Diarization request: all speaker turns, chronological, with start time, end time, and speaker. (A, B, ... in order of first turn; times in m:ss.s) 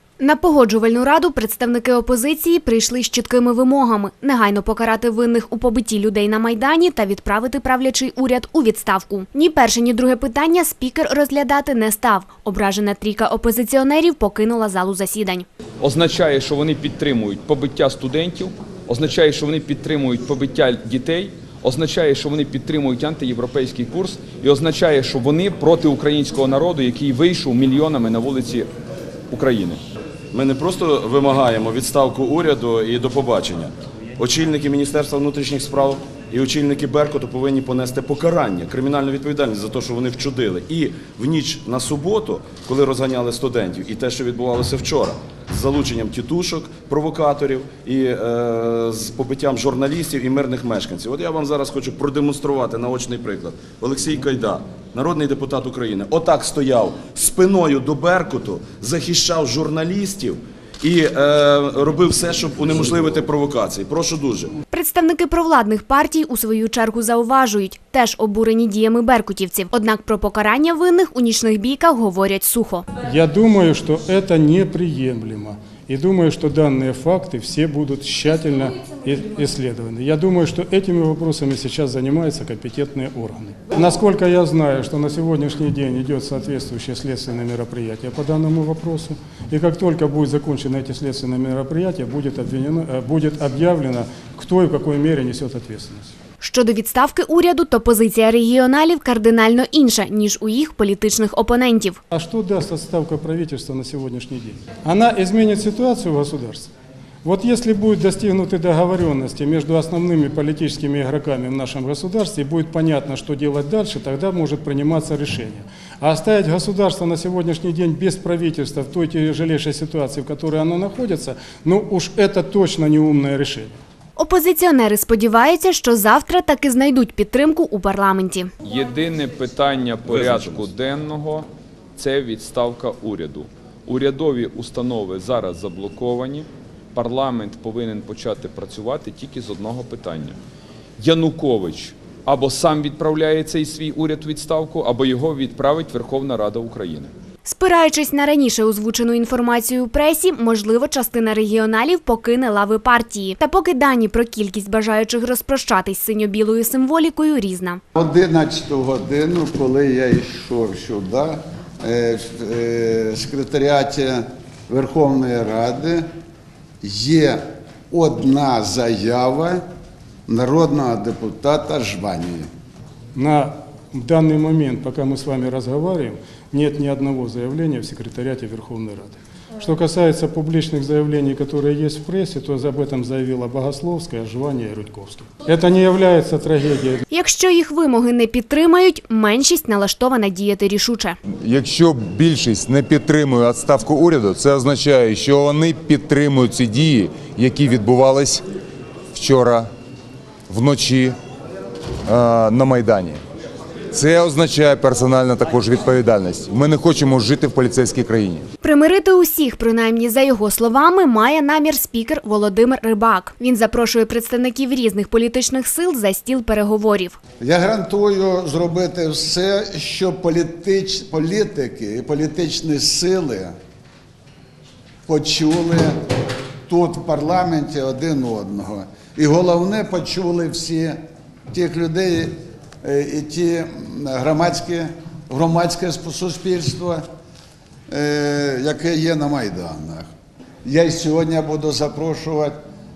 0:00.2-0:15.5 A
0:15.8-0:28.7 B
0:29.3-0:29.8 B
0:30.3-1:04.6 C
1:04.7-1:12.9 A
1:13.0-1:36.1 D
1:36.4-1:42.0 A
1:42.1-1:46.7 D
1:47.2-2:03.7 D
2:04.2-2:08.5 A
2:08.6-2:20.4 B
2:10.1-2:10.7 C
2:21.0-2:27.1 B
2:27.4-2:37.8 A
2:38.0-2:46.0 E
2:46.8-2:49.6 E
2:50.3-2:52.5 E
2:53.2-3:07.0 D
3:07.1-3:11.2 A
3:11.3-3:18.4 F
3:19.1-3:19.7 F
3:20.5-3:21.2 F
3:22.1-3:23.2 F
3:23.9-3:28.4 F
3:28.6-3:37.2 A
3:37.4-3:43.5 E
3:45.1-3:46.0 E
3:46.7-3:51.0 E
3:51.5-3:57.0 E
3:57.9-4:00.1 E
4:00.6-4:02.5 E